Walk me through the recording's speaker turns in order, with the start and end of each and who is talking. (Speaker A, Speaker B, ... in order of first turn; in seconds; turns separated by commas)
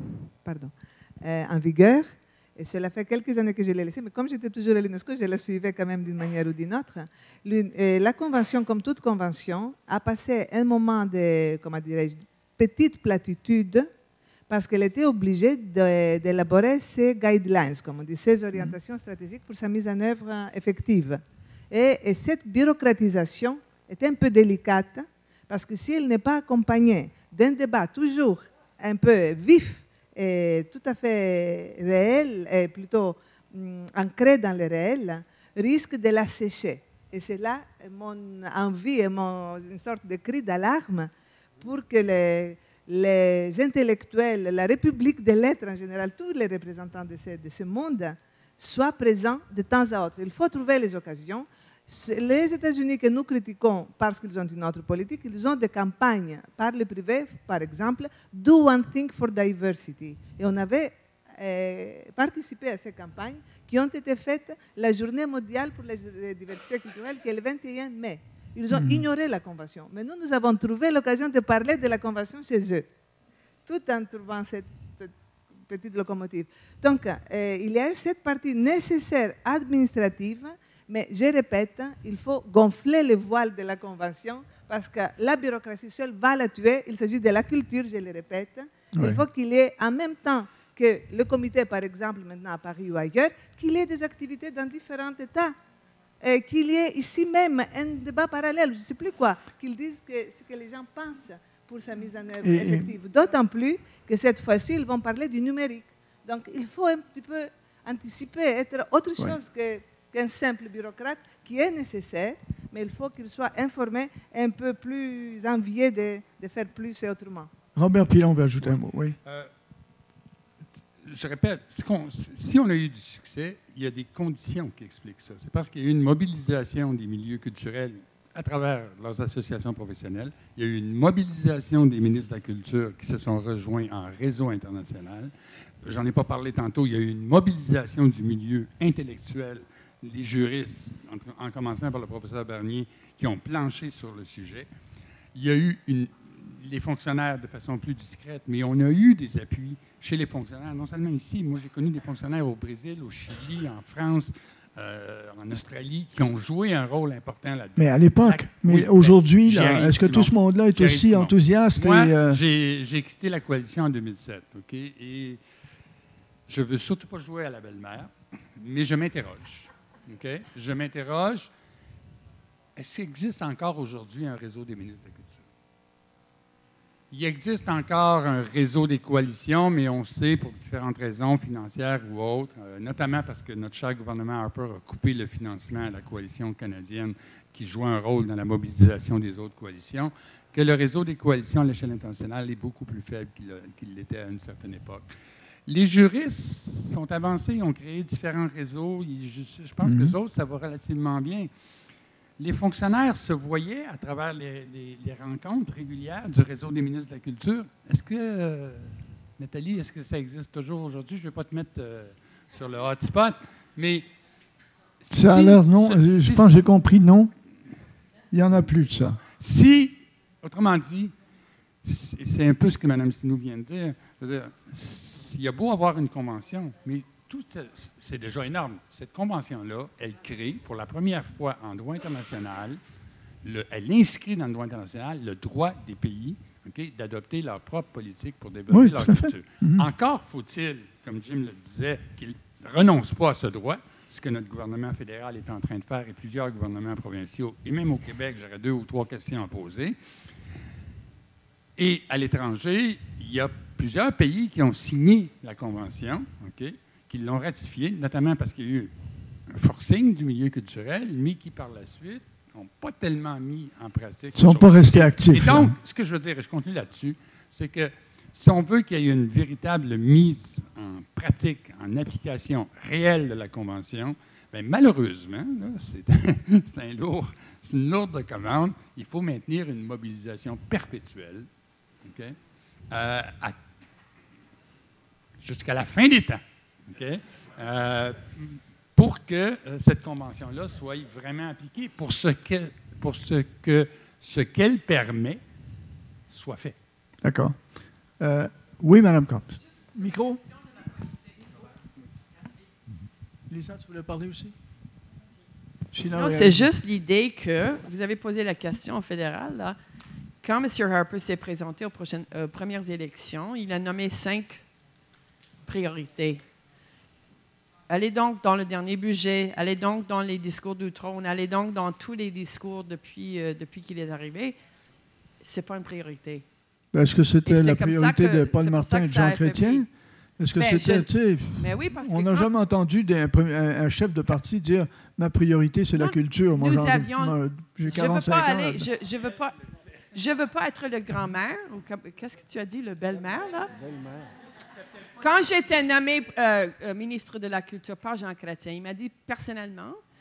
Speaker A: 0.4-13.9, Speaker A: 14.5-72.9, Speaker B: 68.7-69.0, Speaker A: 73.7-75.1, Speaker A: 75.7-95.5, Speaker B: 88.9-89.2, Speaker A: 96.2-117.5, Speaker B: 102.4-102.9, Speaker B: 117.8-119.2, Speaker C: 121.0-135.3, Speaker C: 135.8-144.7, Speaker C: 145.3-165.4, Speaker B: 157.8-162.4, Speaker C: 166.5-171.5, Speaker C: 172.8-175.4, Speaker C: 177.1-195.0, Speaker C: 195.7-201.5, Speaker B: 199.8-200.2, Speaker C: 202.4-214.1, Speaker C: 215.0-216.6, Speaker B: 215.1-217.3, Speaker B: 218.3-219.2, Speaker C: 219.4-221.1, Speaker C: 221.8-232.8, Speaker C: 233.4-250.0, Speaker B: 238.7-239.9, Speaker C: 251.8-258.9, Speaker C: 259.5-281.5, Speaker B: 264.4-265.8, Speaker C: 282.0-282.4, Speaker C: 282.9-283.6, Speaker C: 285.4-286.4, Speaker C: 286.9-295.4, Speaker C: 296.3-296.8, Speaker B: 297.2-297.6, Speaker B: 298.2-300.4, Speaker B: 303.5-304.5, Speaker B: 305.9-306.7, Speaker D: 306.1-309.8, Speaker D: 310.4-314.6, Speaker D: 315.7-316.4, Speaker D: 317.9-324.6, Speaker D: 325.4-326.4, Speaker B: 326.9-329.9, Speaker D: 327.5-329.9, Speaker B: 330.4-338.9, Speaker D: 330.6-332.5, Speaker D: 335.9-339.6, Speaker D: 340.1-343.8, Speaker D: 345.2-350.0